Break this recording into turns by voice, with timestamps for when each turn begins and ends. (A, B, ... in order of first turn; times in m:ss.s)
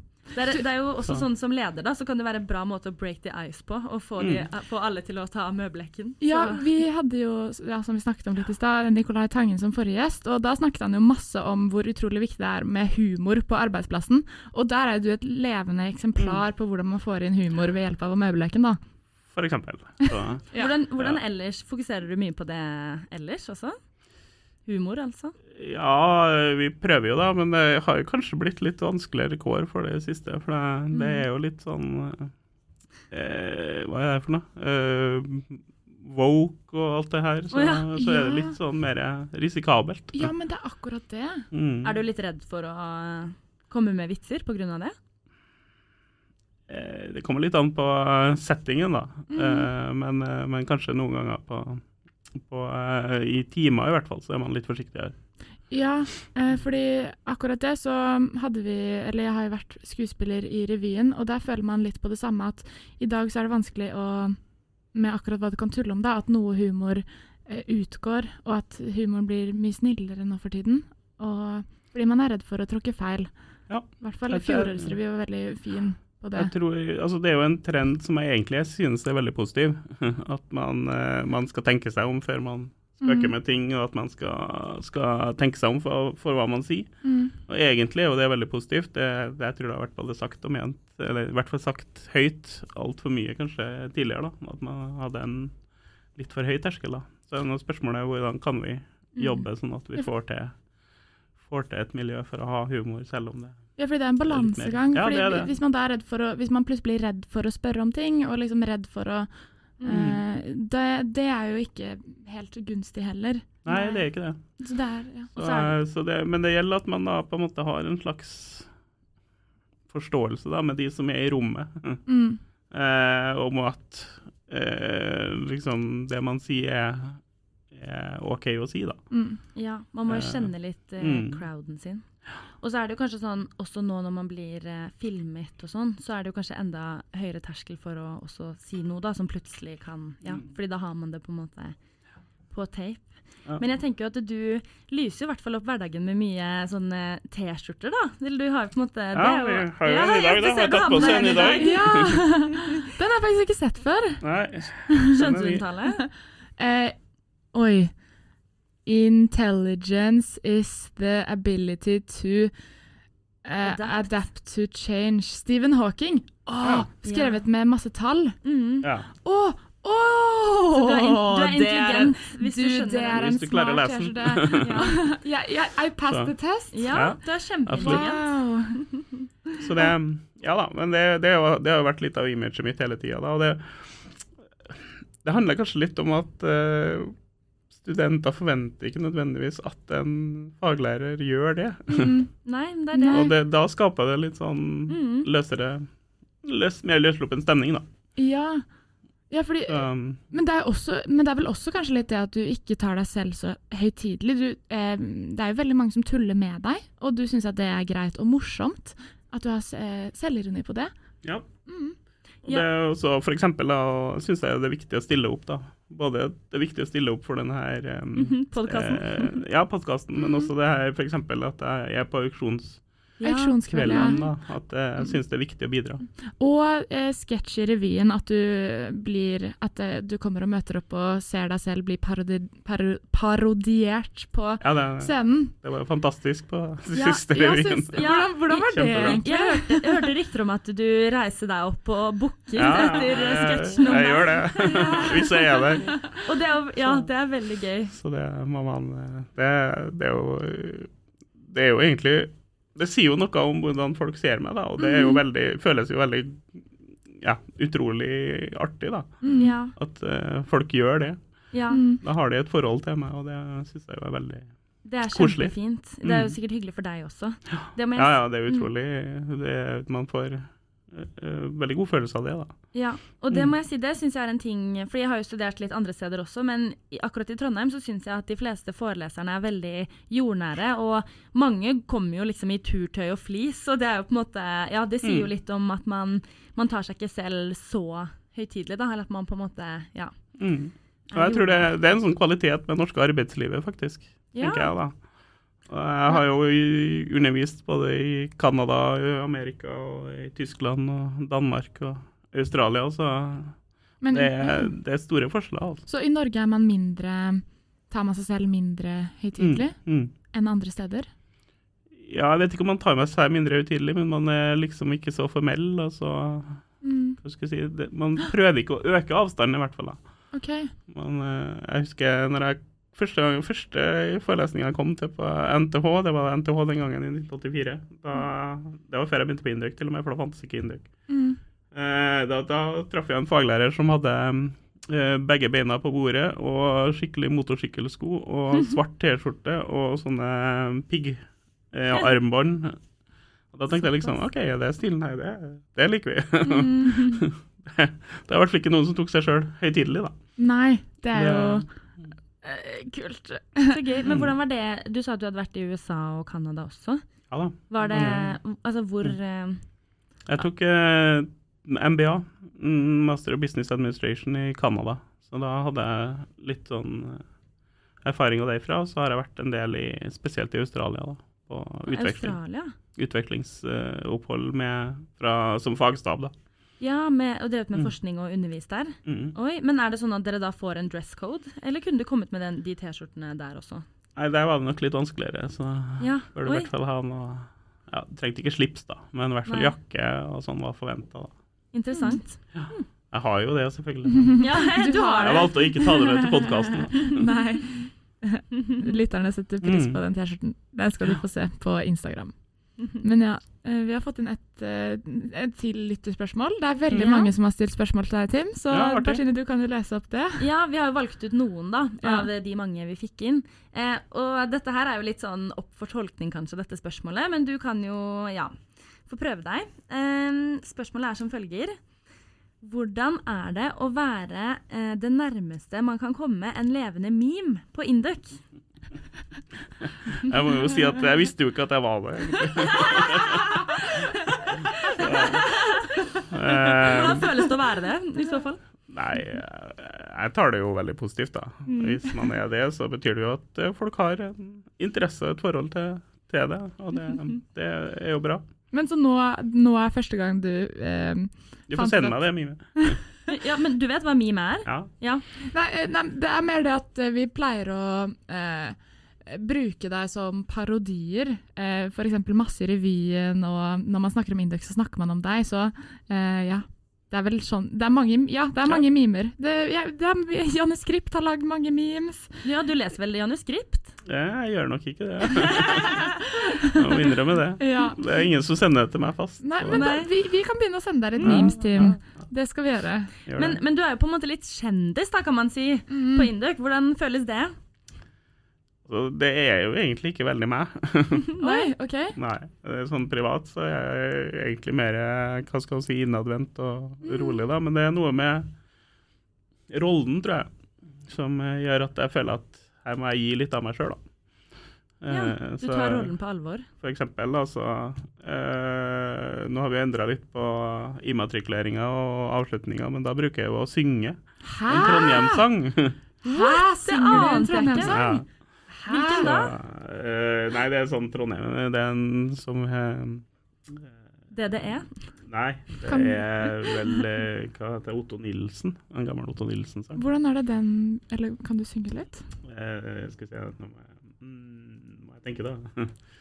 0:00.3-0:06.7 A
0:04.2-0:04.5 B
0:06.2-0:18.8 C
0:19.3-0:20.5 B
0:20.1-0:20.7 C
0:20.5-0:23.8 A
0:24.7-0:25.4 A
0:25.5-0:32.3 B
0:30.9-0:31.2 C
0:33.1-0:40.3 B
0:37.5-0:37.9 A
0:38.0-0:38.6 C
0:40.1-0:41.5 C
0:41.5-0:42.0 B
0:41.8-0:45.0 A
0:46.7-0:51.8 B
0:49.3-0:49.7 C
0:52.4-0:55.2 B
0:55.7-1:04.4 C
1:04.9-1:13.3 C
1:13.7-1:15.0 B
1:14.0-1:16.5 C
1:16.4-1:26.9 B
1:23.0-1:23.3 C
1:27.0-1:27.4 C
1:27.5-1:35.6 B
1:36.2-1:40.6 B
1:39.2-1:39.4 A
1:41.4-1:43.7 B
1:43.8-1:54.1 C
1:44.2-1:45.5 B
1:49.9-1:50.2 B
1:53.6-1:54.4 B
1:54.6-1:55.7 C
1:55.4-1:58.7 B
1:59.9-2:02.0 B
2:02.1-2:02.4 C
2:02.7-2:09.0 B
2:09.1-2:09.4 C
2:09.6-2:12.0 A
2:10.1-2:11.4 B
2:12.6-2:21.8 A
2:22.5-2:32.0 A
2:29.1-2:32.2 B
2:31.5-2:34.2 C
2:34.2-2:35.6 B
2:34.9-2:35.2 C
2:35.1-2:36.0 A
2:35.8-2:37.0 C
2:37.5-2:37.9 C
2:38.9-2:42.5 C
2:43.4-2:48.4 C
2:43.6-2:44.2 A
2:46.6-2:46.9 B
2:47.0-2:47.4 A
2:48.4-2:48.9 A
2:48.8-2:49.1 B
2:49.2-2:57.1 C
2:50.7-2:53.3 A
2:51.4-2:52.1 B
2:53.1-2:55.0 B
2:54.6-2:55.0 A
2:56.7-2:58.4 A
2:56.9-2:58.1 B
2:57.8-2:58.9 C
2:59.6-3:04.1 B
3:04.7-3:07.1 B
3:07.7-3:12.2 B
3:11.9-3:12.3 C
3:12.4-3:13.3 A
3:12.9-3:13.3 C
3:13.1-3:15.9 B
3:14.9-3:15.3 A
3:16.4-3:17.9 B
3:18.2-3:18.6 C
3:19.3-3:30.9 C
3:19.7-3:20.2 B
3:31.7-3:32.0 C
3:32.4-3:42.8 B
3:38.2-3:39.4 A
3:43.2-3:44.3 A
3:43.2-3:44.2 C
3:43.7-3:46.1 B
3:46.4-3:55.5 C
3:54.6-3:58.1 B
3:56.9-4:00.1 C
3:58.0-4:07.9 A
3:58.7-3:59.2 B
4:02.5-4:06.0 B
4:07.9-4:10.9 B
4:11.5-4:19.1 B
4:14.8-4:15.1 C
4:19.2-4:19.5 C
4:19.4-4:19.7 A
4:19.7-4:21.2 B
4:21.5-4:21.8 A
4:21.7-4:22.0 C
4:22.0-4:24.5 B
4:24.8-4:28.7 A
4:25.1-4:26.4 B
4:27.9-4:32.6 B
4:32.7-4:50.1 A
4:45.0-4:45.3 B
4:50.4-4:55.0 B
4:51.1-4:51.7 A
4:54.3-4:54.7 A
4:55.7-5:03.6 B
5:04.0-5:04.7 C
5:04.1-5:05.8 B
5:05.9-5:11.1 C
5:09.4-5:10.1 B
5:12.0-5:16.6 B
5:16.8-5:17.2 C
5:17.2-5:20.0 B
5:20.3-5:20.7 C
5:20.9-5:30.9 B
5:31.1-5:31.4 C
5:31.7-5:42.8 B
5:43.5-5:50.2 B
5:46.4-5:47.2 C
5:50.4-5:51.7 C
5:51.1-5:51.7 B
5:52.4-5:54.1 C
5:53.7-5:57.0 A
5:54.0-5:54.3 B
5:57.3-5:58.4 B
5:57.7-5:59.6 A
6:00.3-6:07.2 B
6:08.0-6:12.4 B
6:11.9-6:12.7 A
6:13.0-6:16.4 B
6:16.8-6:23.8 A
6:19.1-6:19.4 B
6:24.2-6:31.3 B
6:26.0-6:26.7 A
6:29.5-6:29.7 A
6:31.7-6:32.8 A
6:31.9-6:32.2 C
6:32.5-6:34.5 B
6:34.1-6:42.4 C
6:34.4-6:36.3 A
6:35.2-6:37.2 B
6:37.0-6:37.3 A
6:39.6-6:40.0 B
6:43.0-6:50.4 C
6:46.9-6:47.3 A
6:48.7-6:49.2 B
6:50.4-6:58.6 A
6:52.0-6:52.3 C
6:59.1-7:01.8 A
7:02.6-7:08.4 A
7:10.0-7:13.5 B
7:12.6-7:18.6 A
7:14.9-7:15.5 B
7:16.3-7:17.3 B
7:18.9-7:28.4 B
7:28.7-7:33.0 C
7:31.7-7:33.0 B
7:33.3-7:35.2 A
7:34.7-7:34.9 B
7:35.5-7:52.4 C
7:52.4-7:54.0 A
7:54.0-7:56.1 B
7:55.6-7:55.9 A
7:55.9-7:56.8 C
7:56.7-7:59.9 B
7:57.6-7:58.0 C
7:59.4-8:03.1 C
7:59.7-8:00.1 A
8:01.2-8:02.0 B
8:03.3-8:03.6 B
8:03.4-8:07.6 A
8:05.9-8:06.3 C
8:08.8-8:11.3 B
8:11.3-8:11.7 A
8:11.4-8:12.2 C
8:12.2-8:18.5 B
8:17.0-8:17.4 C
8:19.7-8:20.5 B
8:21.1-8:24.0 B
8:25.0-8:26.1 B
8:25.1-8:26.7 A
8:26.8-8:36.0 B
8:34.4-8:35.4 C
8:36.2-8:38.0 C
8:36.2-8:38.2 A
8:37.8-8:38.3 B
8:38.7-8:39.3 C
8:38.9-8:39.5 A
8:39.2-8:43.9 B
8:44.3-8:44.9 A
8:45.2-8:50.0 B
8:45.9-8:46.2 C
8:50.0-8:52.2 C
8:52.4-8:56.0 B